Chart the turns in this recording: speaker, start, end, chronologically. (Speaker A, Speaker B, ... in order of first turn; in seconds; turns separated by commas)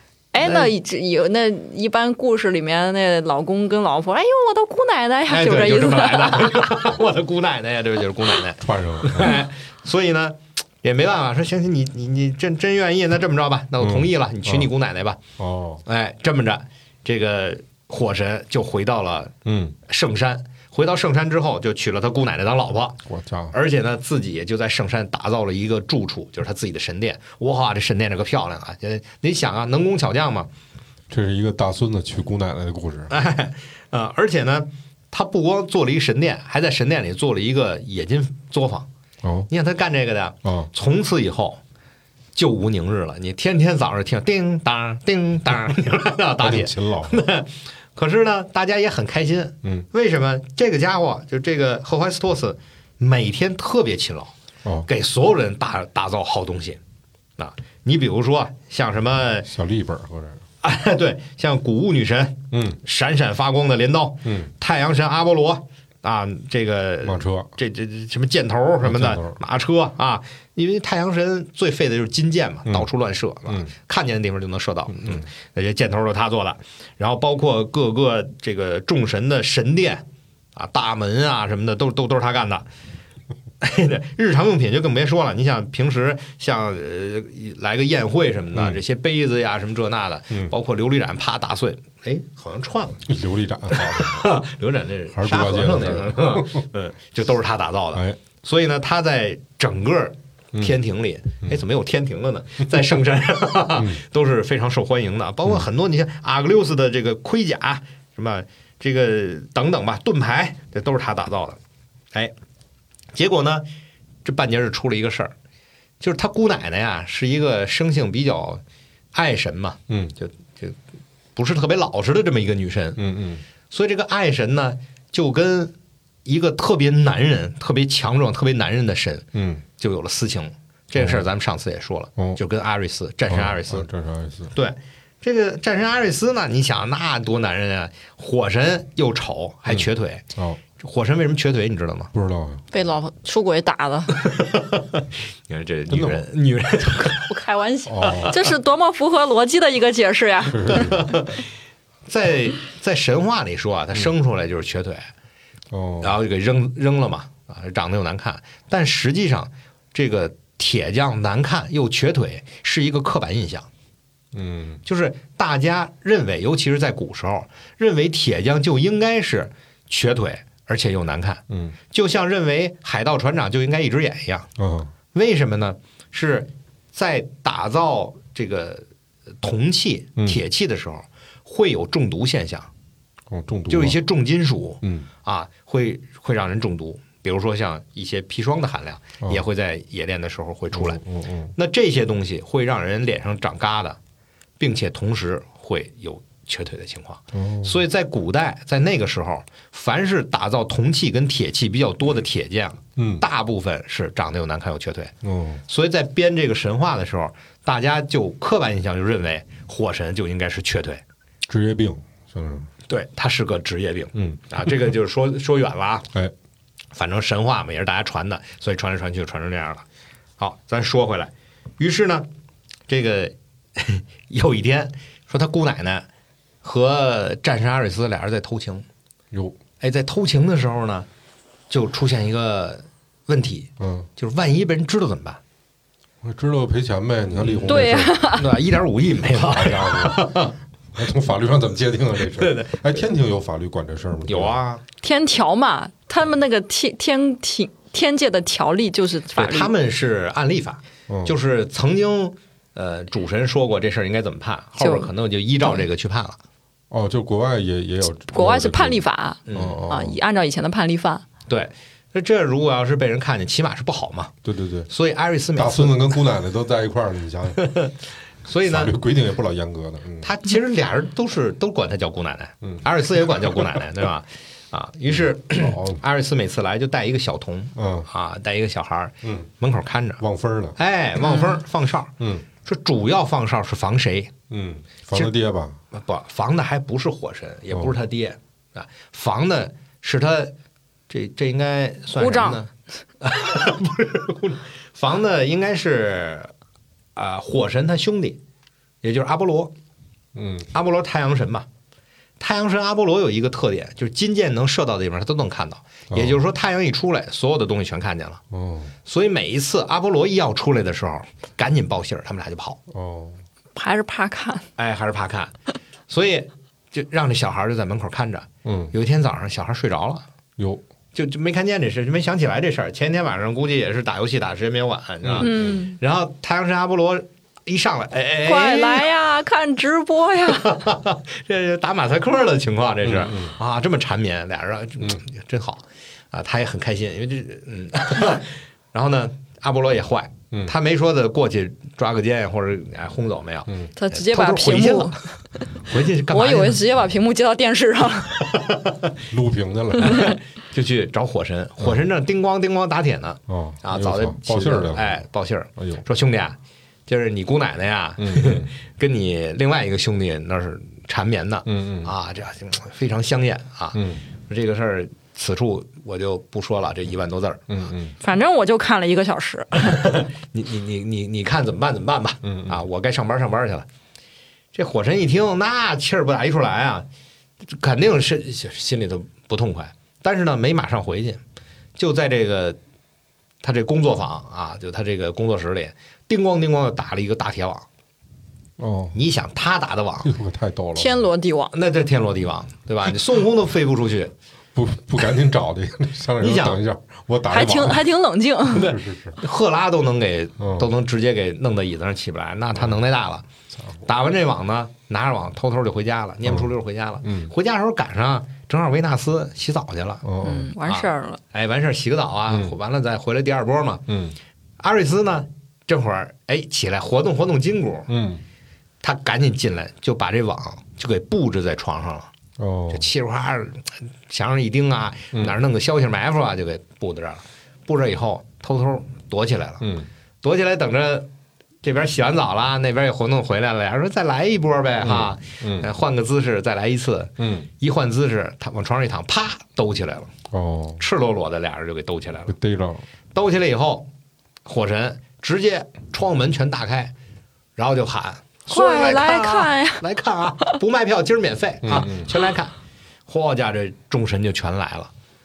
Speaker A: 0.3-6.7, Speaker B: 0.4-0.7, Speaker B: 5.3-15.2, Speaker C: 8.6-9.4, Speaker C: 13.8-14.7, Speaker C: 15.4-15.8, Speaker B: 15.8-19.3, Speaker C: 19.4-19.8, Speaker B: 19.9-23.0, Speaker C: 23.1-23.6, Speaker B: 23.5-30.5, Speaker C: 31.1-33.1, Speaker B: 33.1-38.9, Speaker C: 39.2-39.5, Speaker B: 39.5-41.6, Speaker C: 40.4-40.7, Speaker B: 42.4-54.3, Speaker C: 46.4-47.2, Speaker B: 54.9-56.8, Speaker B: 57.4-59.5, Speaker C: 59.5-60.4, Speaker B: 60.6-80.0, Speaker C: 62.5-62.8, Speaker C: 64.2-64.5, Speaker C: 67.0-67.5, Speaker C: 68.8-69.4, Speaker C: 74.9-75.3, Speaker B: 80.5-82.7, Speaker B: 83.6-93.0, Speaker C: 88.5-88.8, Speaker C: 93.1-94.3, Speaker B: 93.7-111.6, Speaker C: 95.1-96.7, Speaker C: 97.9-98.2, Speaker C: 103.8-104.0, Speaker B: 113.1-113.7, Speaker B: 114.2-115.3, Speaker B: 116.0-118.6, Speaker B: 119.1-120.8, Speaker C: 119.9-120.2, Speaker B: 121.4-123.0, Speaker C: 123.0-123.4, Speaker B: 123.7-125.7, Speaker B: 126.2-129.3, Speaker C: 129.3-129.6, Speaker B: 129.8-133.9, Speaker C: 130.9-131.3, Speaker C: 133.3-134.5, Speaker B: 134.5-140.2, Speaker C: 139.7-140.6, Speaker B: 140.8-142.1, Speaker C: 142.1-142.6, Speaker A: 142.7-144.2, Speaker B: 144.1-147.3, Speaker C: 145.9-146.3, Speaker A: 147.1-150.9, Speaker C: 147.9-148.3, Speaker B: 148.0-148.3, Speaker C: 150.5-151.2, Speaker B: 150.7-151.4, Speaker B: 152.1-155.1, Speaker C: 155.7-156.2, Speaker B: 156.0-163.7, Speaker C: 164.3-164.8, Speaker B: 164.8-174.5, Speaker C: 171.5-171.8, Speaker C: 174.6-174.9, Speaker B: 175.1-178.8, Speaker B: 179.4-182.7, Speaker C: 180.2-180.4, Speaker C: 183.3-184.0, Speaker B: 183.7-191.0, Speaker C: 184.8-185.1, Speaker C: 190.7-191.5, Speaker B: 191.6-194.0, Speaker B: 194.6-205.1, Speaker C: 197.3-197.8, Speaker C: 203.0-203.2, Speaker C: 205.2-205.6, Speaker B: 205.7-211.0, Speaker C: 211.5-212.7, Speaker B: 212.9-216.1, Speaker C: 214.2-214.4, Speaker B: 216.9-219.8, Speaker B: 220.4-222.3, Speaker B: 222.9-226.1, Speaker B: 226.6-228.9, Speaker C: 229.3-229.6, Speaker B: 229.8-231.1, Speaker B: 231.7-235.4, Speaker C: 233.8-234.1, Speaker C: 236.2-238.4, Speaker B: 237.4-237.7, Speaker A: 237.7-238.5, Speaker B: 238.3-240.6, Speaker C: 239.2-244.6, Speaker B: 242.2-243.0, Speaker B: 244.3-244.8, Speaker A: 245.0-249.7, Speaker B: 249.3-256.4, Speaker C: 251.1-251.3, Speaker A: 254.8-255.1, Speaker A: 255.6-255.9, Speaker C: 256.9-260.2, Speaker A: 258.3-261.2, Speaker B: 259.5-259.8, Speaker B: 261.5-264.3, Speaker C: 264.4-264.9, Speaker B: 264.9-266.1, Speaker C: 265.6-267.6, Speaker B: 267.6-268.9, Speaker C: 268.6-270.3, Speaker B: 270.2-280.2, Speaker C: 272.6-273.8, Speaker C: 275.1-276.0, Speaker C: 277.8-278.1, Speaker C: 279.2-279.5, Speaker C: 280.2-280.8, Speaker B: 280.8-284.3, Speaker A: 281.2-281.6, Speaker C: 282.2-282.5, Speaker C: 284.5-285.8, Speaker B: 285.9-290.5, Speaker B: 291.1-292.7, Speaker A: 292.2-292.6, Speaker B: 293.2-296.5, Speaker B: 297.2-298.4, Speaker B: 299.0-299.7, Speaker C: 300.3-300.7, Speaker B: 300.7-301.7, Speaker B: 302.4-308.4, Speaker C: 306.1-306.4, Speaker C: 308.5-308.9, Speaker B: 309.1-312.8, Speaker C: 312.9-313.4, Speaker A: 313.8-314.7, Speaker B: 314.8-315.5, Speaker B: 316.1-320.2, Speaker C: 318.6-318.9, Speaker C: 320.6-320.8, Speaker B: 321.1-329.1, Speaker C: 325.2-325.8, Speaker A: 325.4-326.0, Speaker A: 328.4-330.8, Speaker B: 330.5-345.2, Speaker C: 333.0-333.5, Speaker A: 344.0-345.6, Speaker B: 345.8-346.8, Speaker A: 346.3-348.6, Speaker B: 348.5-349.1, Speaker C: 349.3-350.3, Speaker B: 350.0-367.7, Speaker C: 353.5-355.2, Speaker C: 355.8-356.0, Speaker C: 358.2-358.7, Speaker C: 361.6-362.1, Speaker C: 363.9-364.2, Speaker C: 367.7-368.2, Speaker A: 368.2-370.1, Speaker B: 369.8-373.9, Speaker C: 372.4-372.8, Speaker B: 374.7-377.1, Speaker B: 377.6-381.4, Speaker B: 382.0-382.8, Speaker B: 383.6-387.9, Speaker C: 388.8-389.2, Speaker B: 389.1-390.3, Speaker C: 390.2-391.2, Speaker A: 391.0-391.8, Speaker B: 391.7-394.3, Speaker C: 394.8-398.1, Speaker B: 396.4-396.8, Speaker A: 397.5-398.9, Speaker C: 398.7-399.4, Speaker B: 398.7-403.4, Speaker C: 400.6-400.9, Speaker B: 404.0-410.2, Speaker C: 407.2-407.5, Speaker C: 410.2-410.7, Speaker A: 410.4-411.4, Speaker B: 410.9-414.1, Speaker C: 412.5-412.8, Speaker C: 414.1-414.4, Speaker B: 414.8-418.1, Speaker C: 418.1-418.4, Speaker B: 419.0-422.3, Speaker C: 422.6-423.1, Speaker B: 422.9-429.8, Speaker C: 425.3-425.6, Speaker C: 429.8-430.1, Speaker B: 430.4-431.3, Speaker B: 431.8-440.3, Speaker C: 435.0-435.9, Speaker C: 437.4-437.7, Speaker C: 440.5-441.0, Speaker B: 441.0-442.6, Speaker C: 442.5-443.1, Speaker B: 443.3-444.1, Speaker B: 444.6-447.1, Speaker B: 447.8-452.7, Speaker A: 448.7-450.1, Speaker C: 451.8-452.3, Speaker B: 453.3-455.1